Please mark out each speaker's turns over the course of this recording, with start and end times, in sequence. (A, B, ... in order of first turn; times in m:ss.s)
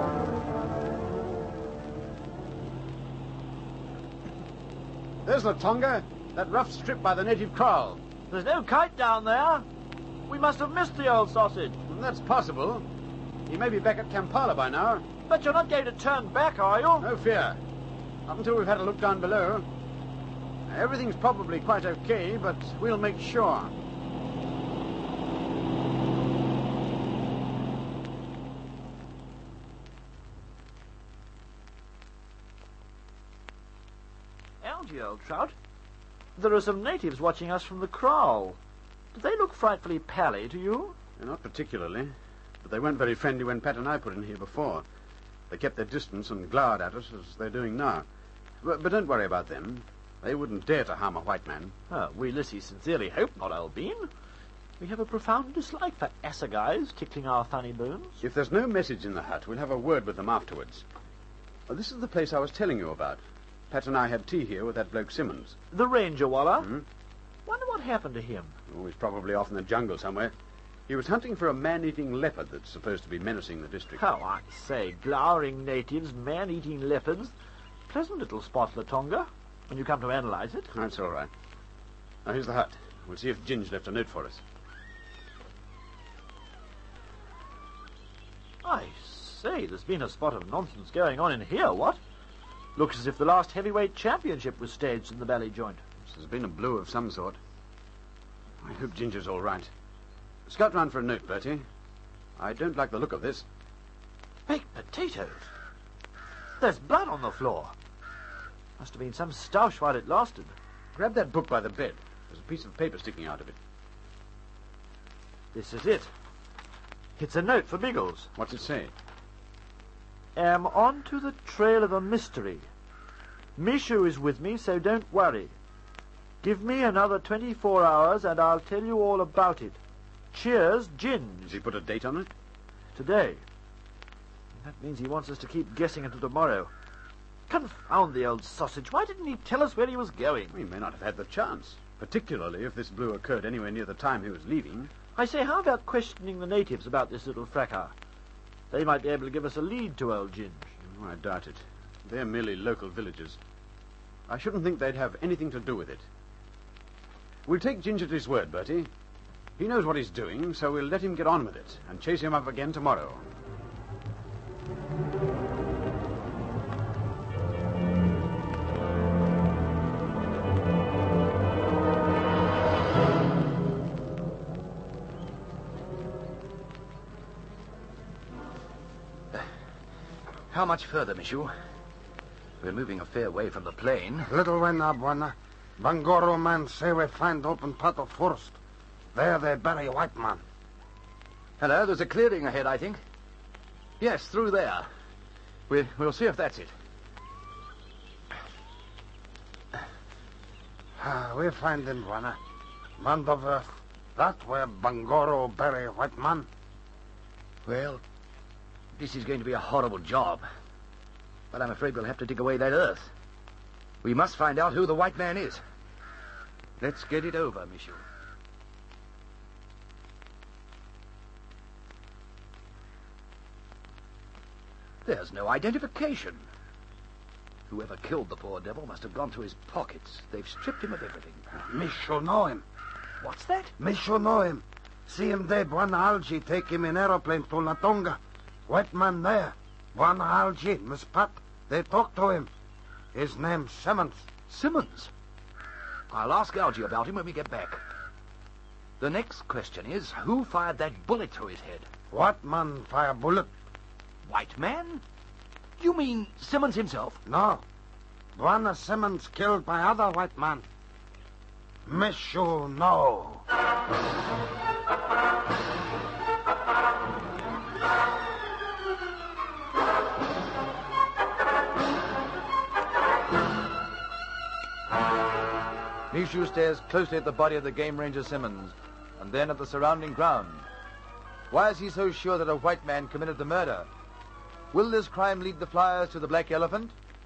0:05.2-0:08.0 A
0:08.3-0:09.6 B
0:10.3-0:11.8 B
0:11.9-0:12.9 A
0:13.5-0:15.0 A
0:15.2-0:17.1 B
0:17.0-0:17.6 A
0:18.3-0:19.7 A
0:20.7-0:23.7 A
0:34.6-0:35.5 B
0:36.4-0:38.6 B
0:39.1-0:41.0 B
0:41.2-0:44.8 A
0:45.5-0:48.0 A
0:48.6-0:51.7 A
0:51.9-0:54.1 B
0:54.8-0:58.2 B
0:58.2-1:00.8 A
1:01.7-1:05.6 A
1:05.7-1:06.7 B
1:06.6-1:06.8 A
1:07.4-1:08.5 B
1:08.7-1:10.3 A
1:10.9-1:14.0 A
1:14.0-1:17.3 B
1:17.9-1:20.7 B
1:20.7-1:21.3 A
1:22.2-1:24.4 A
1:28.6-1:32.0 B
1:32.7-1:35.8 B
1:36.1-1:37.4 A
1:38.6-1:39.7 A
1:40.5-1:41.6 A
1:42.4-1:43.4 A
1:44.5-1:45.5 B
1:46.6-1:47.7 B
1:48.8-1:50.5 B
1:51.0-1:53.5 A
1:55.5-1:56.1 B
1:57.2-1:58.3 B
1:58.3-1:58.9 A
2:00.4-2:02.6 B
2:03.6-2:05.5 B
2:06.4-2:09.8 B
2:10.3-2:11.6 B
2:11.5-2:12.3 A
2:12.9-2:13.4 B
2:14.6-2:16.7 B
2:17.5-2:20.6 B
2:20.5-2:24.9 A
2:25.1-2:27.9 B
2:28.7-2:30.7 B
2:30.8-2:33.4 A
2:34.3-2:36.0 A
2:37.4-2:38.9 A
2:39.6-2:43.2 A
3:00.5-3:01.5 C
3:02.6-3:04.3 C
3:04.2-3:08.6 D
3:09.1-3:10.4 D
3:11.6-3:13.0 C
3:14.0-3:14.9 C
3:15.7-3:16.7 C
3:21.0-3:22.4 D
3:23.0-3:26.5 D
3:27.6-3:28.0 C
3:29.0-3:30.4 C
3:31.5-3:33.1 C
3:34.0-3:35.6 C
3:36.8-3:38.0 C
3:45.0-3:46.5 C
3:47.7-3:51.4 C
3:51.5-3:52.6 D
3:53.2-3:53.7 C
3:53.8-4:02.5 D
4:03.1-4:04.3 D
4:04.5-4:05.1 C
4:06.1-4:07.8 C
4:09.0-4:11.9 C
4:12.1-4:13.5 D
4:14.2-4:15.0 C
4:15.8-4:17.2 C
4:17.2-4:17.6 D
4:18.4-4:20.6 D
4:21.8-4:23.4 D
4:36.1-4:40.7 E
4:41.5-4:43.9 E
4:44.7-4:46.9 E